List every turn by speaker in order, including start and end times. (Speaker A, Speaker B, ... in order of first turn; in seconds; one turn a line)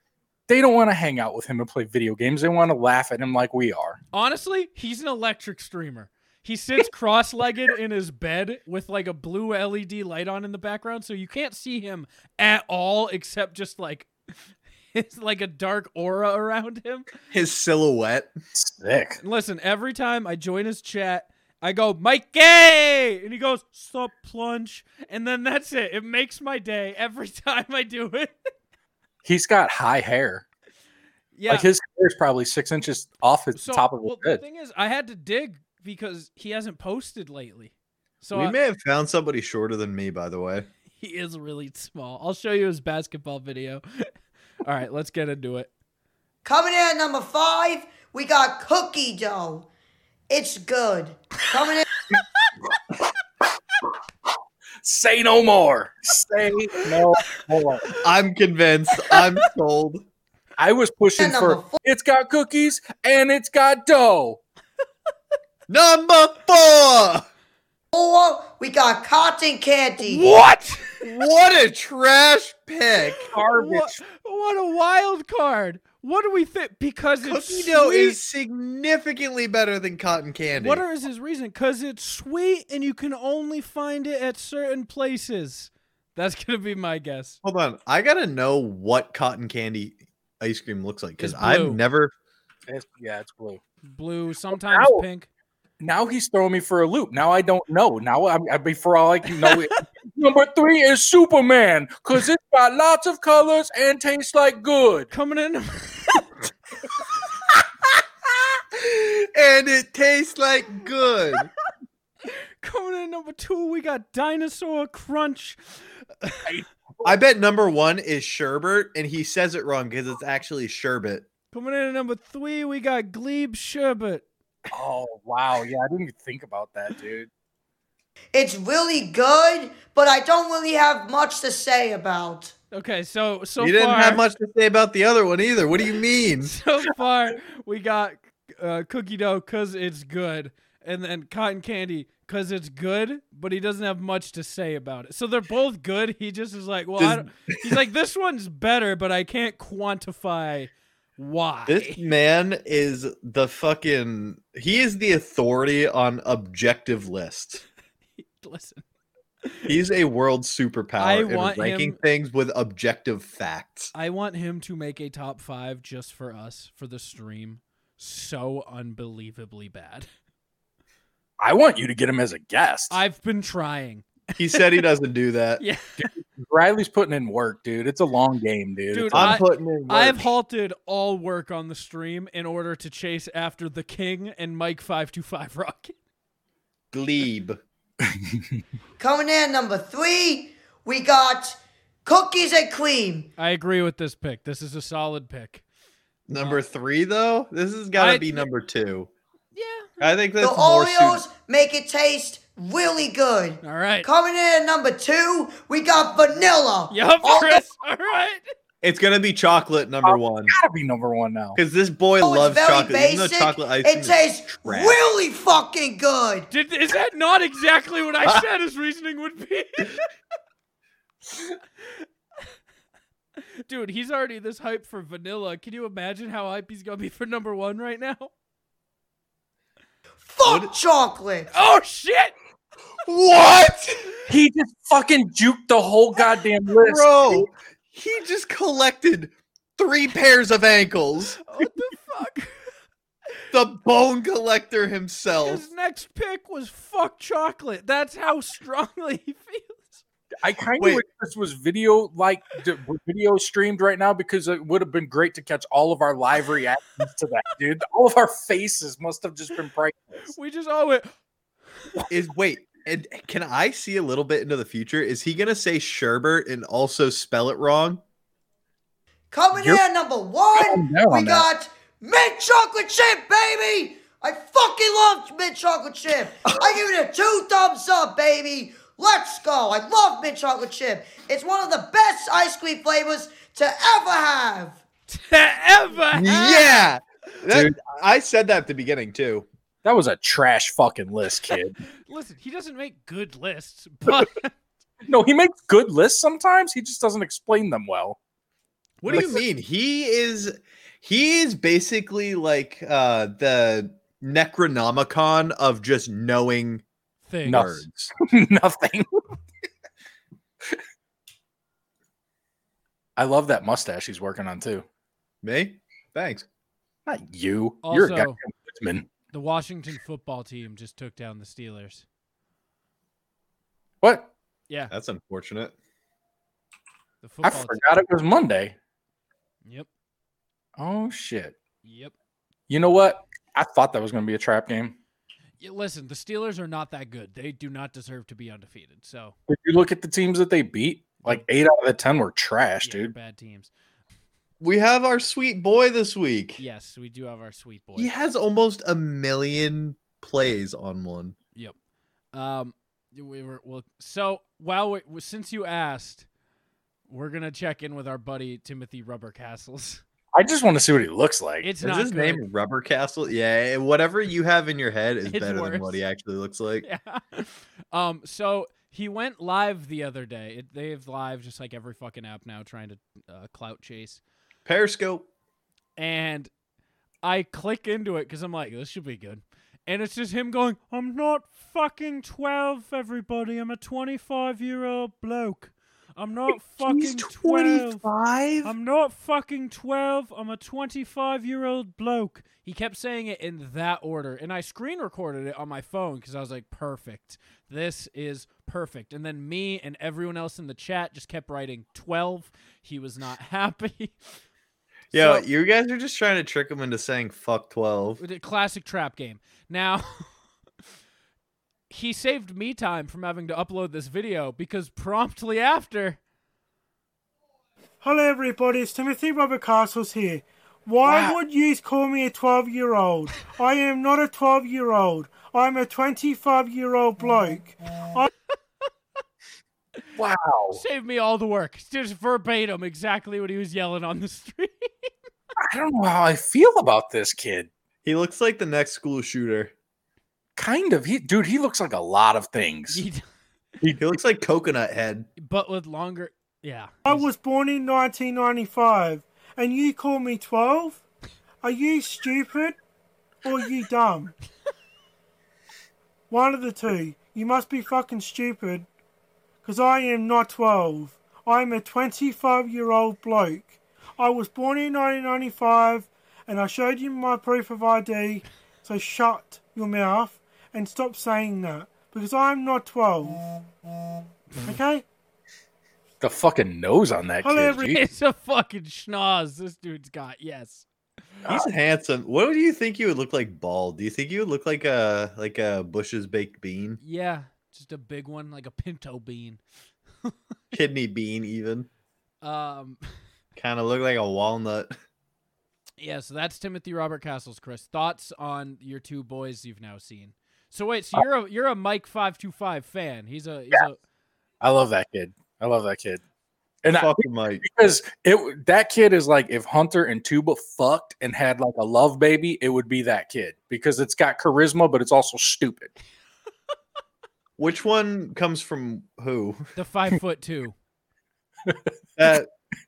Speaker A: 0.5-4.0
Speaker B: 4.1-14.1
Speaker B: 14.9-17.1
Speaker C: 17.3-18.3
Speaker A: 18.6-19.2
Speaker B: 19.2-28.4
Speaker A: 29.2-30.4
Speaker B: 31.4-31.7
Speaker A: 31.5-34.4
Speaker B: 33.5-38.6
Speaker C: 38.3-40.7
Speaker B: 41.0-44.1
Speaker B: 44.6-45.7
Speaker D: 46.5-49.7
Speaker D: 50.3-51.9
Speaker A: 54.8-57.9
Speaker C: 58.0-60.0
Speaker A: 60.6-64.4
Speaker D: 61.2-61.8
Speaker C: 65.7-67.2
Speaker D: 67.9-70.3
Speaker B: 70.0-71.0
Speaker C: 71.0-73.3
Speaker B: 73.2-78.2
Speaker A: 73.3-74.0
Speaker C: 77.2-80.8
Speaker B: 80.5-87.4
Speaker C: 87.4-92.1
Speaker B: 91.2-91.8
Speaker A: 92.7-93.6
Speaker B: 93.9-95.3
Speaker A: 94.5-95.0
Speaker A: 95.8-105.1
Speaker B: 105.1-106.3
Speaker C: 108.9-111.5
Speaker B: 112.6-115.6
Speaker C: 117.0-121.2
Speaker B: 121.5-124.2
Speaker A: 124.7-127.3
Speaker D: 128.3-132.5
Speaker B: 132.7-134.2
Speaker C: 133.6-136.5
Speaker B: 136.4-152.0
Speaker C: 151.7-157.6
Speaker B: 158.2-158.8
Speaker C: 159.7-163.9
Speaker B: 161.0-162.0
Speaker B: 163.9-170.1
Speaker A: 171.4-173.0
Speaker B: 172.9-174.8
Speaker C: 174.4-175.6
Speaker B: 175.6-176.0
Speaker A: 176.0-179.4
Speaker B: 178.9-185.9
Speaker C: 179.1-180.3
Speaker C: 186.9-187.6
Speaker D: 189.0-193.3
Speaker B: 193.4-195.6
Speaker C: 196.3-199.1
Speaker B: 198.0-198.5
Speaker B: 199.5-200.1
Speaker C: 200.0-201.2
Speaker D: 200.4-207.7
Speaker B: 203.6-204.1
Speaker B: 206.9-208.5
Speaker C: 208.8-210.5
Speaker A: 210.0-211.6
Speaker C: 211.6-215.0
Speaker D: 212.2-216.5
Speaker B: 216.5-219.9
Speaker B: 223.7-228.3
Speaker D: 230.3-231.5
Speaker C: 230.4-230.7
Speaker B: 231.5-232.3
Speaker C: 233.1-233.9
Speaker A: 234.3-237.5
Speaker C: 236.8-241.4
Speaker B: 241.4-242.5
Speaker C: 243.5-245.6
Speaker B: 245.4-250.0
Speaker A: 250.4-260.3
Speaker B: 260.3-261.1
Speaker C: 262.1-268.0
Speaker D: 269.3-284.8
Speaker A: 269.6-269.8
Speaker A: 270.6-271.5
Speaker B: 285.1-286.9
Speaker C: 286.1-289.5
Speaker A: 289.8-291.8
Speaker B: 292.1-294.5
Speaker A: 295.1-298.2
Speaker B: 299.0-299.4
Speaker C: 299.0-306.8
Speaker A: 299.1-299.4
Speaker B: 307.3-307.8
Speaker C: 307.5-308.1
Speaker A: 307.5-309.1
Speaker A: 313.2-314.8
Speaker C: 315.4-316.5
Speaker A: 317.1-319.1
Speaker B: 317.8-318.4
Speaker B: 319.3-322.1
Speaker A: 324.0-324.3
Speaker C: 324.9-325.7
Speaker B: 327.2-327.8
Speaker A: 327.4-328.8
Speaker A: 330.8-331.6
Speaker B: 331.8-332.1
Speaker A: 332.7-335.0
Speaker B: 335.6-339.4
Speaker A: 339.5-343.1
Speaker B: 342.8-343.7
Speaker C: 344.6-346.6
Speaker B: 346.6-348.1
Speaker C: 348.0-351.4
Speaker B: 352.3-356.3
Speaker B: 357.1-360.0
Speaker A: 360.3-361.7
Speaker B: 361.6-362.4
Speaker C: 361.8-366.9
Speaker B: 365.3-366.0
Speaker B: 366.8-374.2
Speaker C: 374.7-375.3
Speaker B: 376.0-376.5
Speaker B: 377.2-388.0
Speaker C: 386.8-388.7
Speaker B: 388.6-404.2
Speaker B: 405.1-405.5
Speaker C: 405.1-408.2
Speaker B: 408.2-410.3
Speaker B: 411.9-416.2
Speaker E: 418.0-428.3
Speaker A: 421.1-421.4
Speaker A: 430.1-430.8
Speaker B: 430.7-434.9
Speaker A: 435.7-437.7
Speaker C: 438.0-439.7
Speaker A: 440.6-443.0
Speaker B: 442.9-443.2
Speaker C: 444.0-445.3
Speaker B: 445.4-447.3
Speaker E: 447.1-451.0
Speaker E: 451.6-452.8
Speaker E: 453.4-454.3
Speaker E: 456.3-458.9
Speaker E: 459.6-473.4
Speaker E: 474.6-475.1
Speaker A: 476.2-478.0
Speaker E: 477.4-477.9
Speaker B: 477.9-480.9
Speaker C: 481.5-487.0
Speaker B: 487.0-489.6
Speaker C: 490.7-491.9
Speaker B: 492.4-493.0
Speaker C: 493.6-495.0
Speaker B: 496.0-504.0
Speaker A: 504.6-506.2
Speaker A: 506.8-515.9
Speaker C: 506.9-507.6
Speaker C: 517.6-519.6
Speaker B: 519.8-520.7
Speaker C: 522.2-522.5